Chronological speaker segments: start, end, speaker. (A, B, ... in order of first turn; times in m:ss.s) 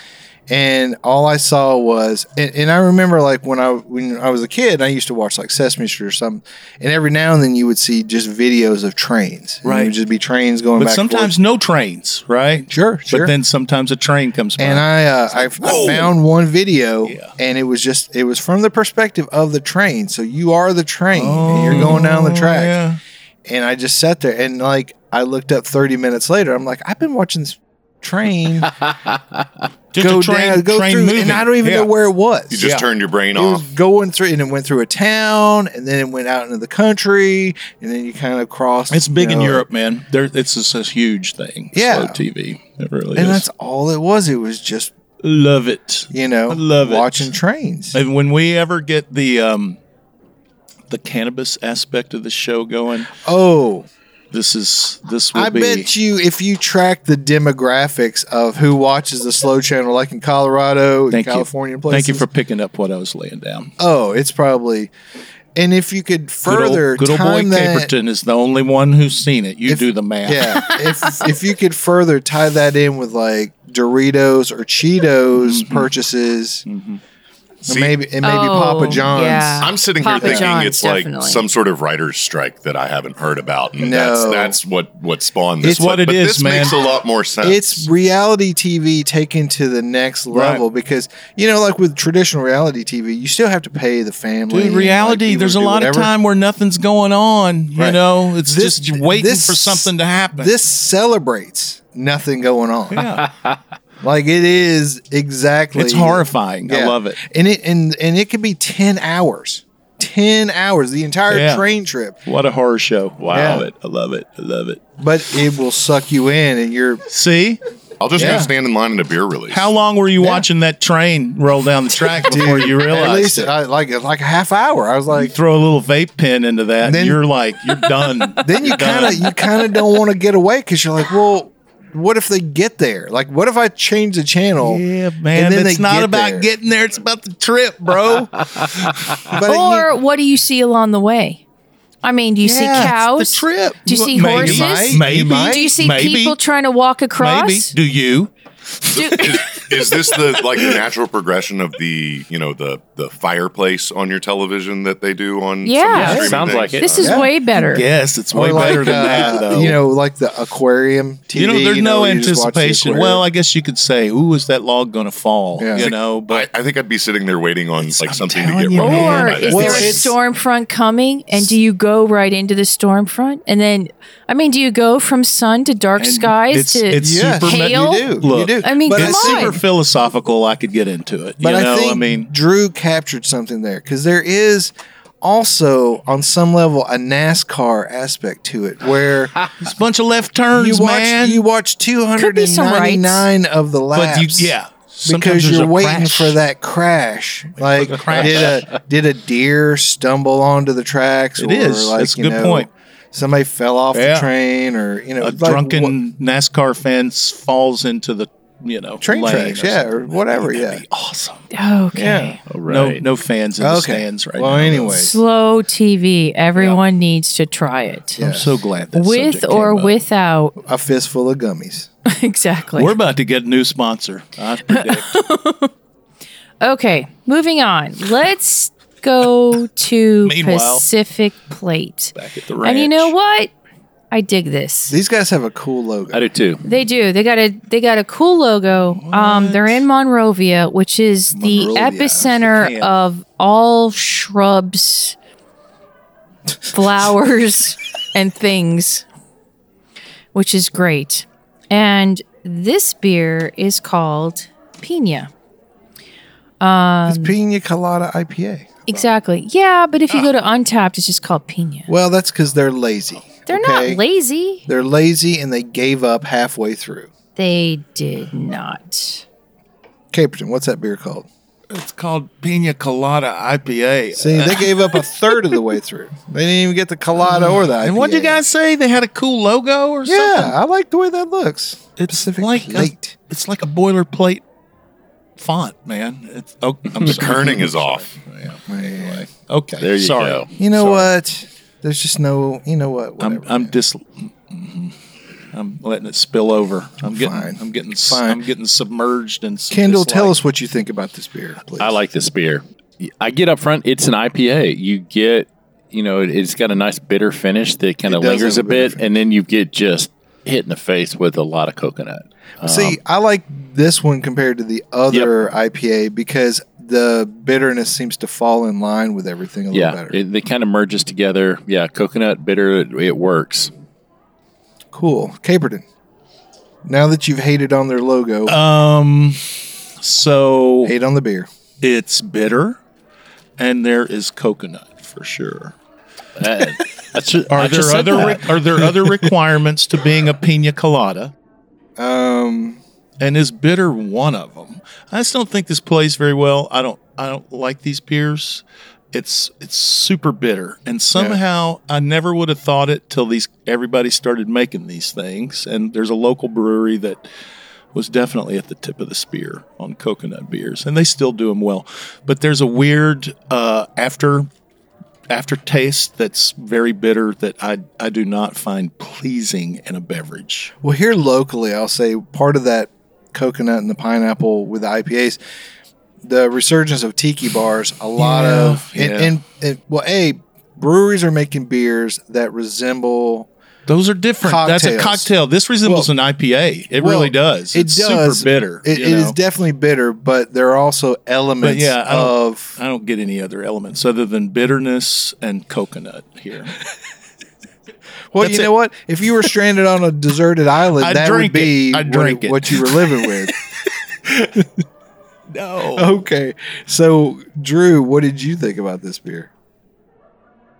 0:00.5-0:11.3 A
0:09.6-0:10.0 B
0:10.8-0:16.2 B
0:12.7-0:13.3 A
0:14.6-0:22.8 A
0:17.0-0:17.3 B
0:21.1-0:23.0 B
0:23.4-0:28.7 A
0:29.9-0:31.9 B
0:30.0-0:32.7 A
0:32.5-0:33.7 C
0:32.6-0:32.8 B
0:33.3-0:39.6 A
0:38.9-0:43.4 B
0:41.7-0:42.2 A
0:43.1-0:44.9 A
0:45.2-0:47.3 B
0:46.1-0:48.0 A
0:47.9-0:49.8 B
0:50.9-0:53.1 B
0:53.2-0:53.9 A
0:54.3-0:55.9 B
0:55.3-1:02.2 A
1:01.1-1:03.7 B
1:03.8-1:04.9 A
1:05.5-1:07.9 A
1:06.5-1:10.7 B
1:09.6-1:16.6 A
1:10.6-1:11.3 D
1:15.4-1:15.9 B
1:16.6-1:17.0 B
1:17.6-1:20.5 A
1:17.7-1:18.0 C
1:18.2-1:21.4 D
1:18.9-1:27.8 C
1:23.8-1:24.6 A
1:25.6-1:26.8 B
1:27.4-1:36.1 A
1:30.3-1:30.6 B
1:34.5-1:40.5 B
1:37.8-1:43.0 A
1:42.9-1:43.2 B
1:44.0-1:52.2 A
1:45.7-1:47.2 B
1:51.3-1:51.6 B
1:52.2-1:54.8 B
1:53.2-1:53.7 E
1:53.3-1:53.7 A
1:55.0-1:57.0 A
1:57.1-1:57.6 B
1:58.0-1:59.7 C
1:58.1-1:58.5 B
1:58.2-1:58.5 A
1:59.5-2:03.5 B
2:00.2-2:00.4 A
2:02.1-2:05.3 A
2:05.1-2:09.3 B
2:06.8-2:07.2 A
2:08.4-2:16.5 A
2:14.6-2:19.2 B
2:19.3-2:19.9 A
2:19.4-2:21.4 D
2:22.0-2:27.7 D
2:22.4-2:26.4 B
2:24.2-2:25.7 A
2:27.2-2:29.6 B
2:28.9-2:37.2 C
2:29.0-2:29.2 D
2:30.4-2:30.6 B
2:35.6-2:37.9 D
2:35.9-2:36.2 B
2:36.0-2:37.0 E
2:37.0-2:37.4 A
2:37.6-2:39.8 B
2:38.3-2:43.2 A
2:41.3-2:46.4 B
2:45.6-2:45.9 A
2:45.8-2:50.1 C
2:48.0-2:50.0 B
2:48.3-2:50.1 A
2:48.8-2:59.6 D
2:56.0-3:02.3 B
2:57.0-2:59.6 A
3:01.4-3:09.4 A
3:09.6-3:11.4 B
3:10.5-3:14.5 A
3:12.2-3:13.2 D
3:13.9-3:16.4 B
3:15.0-3:25.9 A
3:17.6-3:18.7 B
3:21.4-3:22.7 B
3:23.9-3:24.3 B
3:25.2-3:31.4 B
3:29.0-3:30.8 A
3:31.5-3:32.4 D
3:31.9-3:32.4 A
3:32.5-3:33.0 E
3:32.6-3:35.0 B
3:33.6-3:35.2 A
3:34.9-3:38.4 D
3:38.2-3:38.6 A
3:38.2-3:40.0 B
3:38.9-3:40.6 D
3:40.6-3:41.9 A
3:42.0-3:43.0 D
3:42.7-3:45.2 B
3:44.7-3:45.7 D
3:46.6-3:53.5 D
3:50.2-3:50.8 B
3:52.1-3:53.1 B
3:54.1-3:55.0 D
3:54.9-3:56.2 A
3:56.1-3:56.6 E
3:56.6-4:05.2 D
3:59.0-3:59.8 B
4:01.3-4:02.3 A
4:02.2-4:02.9 B
4:06.7-4:09.0 D
4:10.3-4:15.3 D
4:16.6-4:17.3 D
4:17.0-4:19.0 A
4:18.9-4:21.9 D
4:21.9-4:24.0 A
4:23.5-4:24.6 D
4:24.7-4:27.1 A
4:27.4-4:29.2 D
4:30.1-4:31.3 A
4:31.7-4:35.4 B
4:34.1-4:38.4 A
4:37.2-4:40.5 B
4:40.0-4:43.2 A
4:42.0-4:44.4 B
4:45.4-4:51.1 B
4:47.0-4:48.1 C
4:48.7-4:49.3 A
4:49.8-4:50.5 E
4:50.6-4:53.7 A
4:53.2-4:54.9 B
4:55.5-5:00.3 B
4:57.0-4:58.4 A
4:59.7-5:02.0 A
5:01.8-5:13.0 E
5:08.0-5:09.0 A
5:12.6-5:20.2 A
5:15.1-5:15.3 E
5:19.7-5:23.7 E
5:24.9-5:25.8 A
5:26.8-5:28.6 A
5:28.5-5:30.9 B
5:30.8-5:31.5 A
5:31.8-5:32.8 B
5:33.6-5:35.7 B
5:36.4-5:38.8 E
5:37.5-5:41.3 B
5:42.0-5:42.8 A
5:43.2-5:57.2 B
5:51.1-5:51.4 A
5:57.9-6:04.5 B
6:05.3-6:10.7 B
6:10.8-6:15.4 A
6:16.2-6:23.5 A
6:18.2-6:19.4 B
6:23.9-6:29.3 B
6:24.4-6:25.3 A
6:27.0-6:32.8 A
6:31.6-6:36.8 B
6:38.3-6:43.5 A
6:38.4-6:38.7 B
6:41.0-6:43.2 B
6:44.3-6:44.7 A
6:45.5-6:46.1 B
6:45.9-6:49.5 A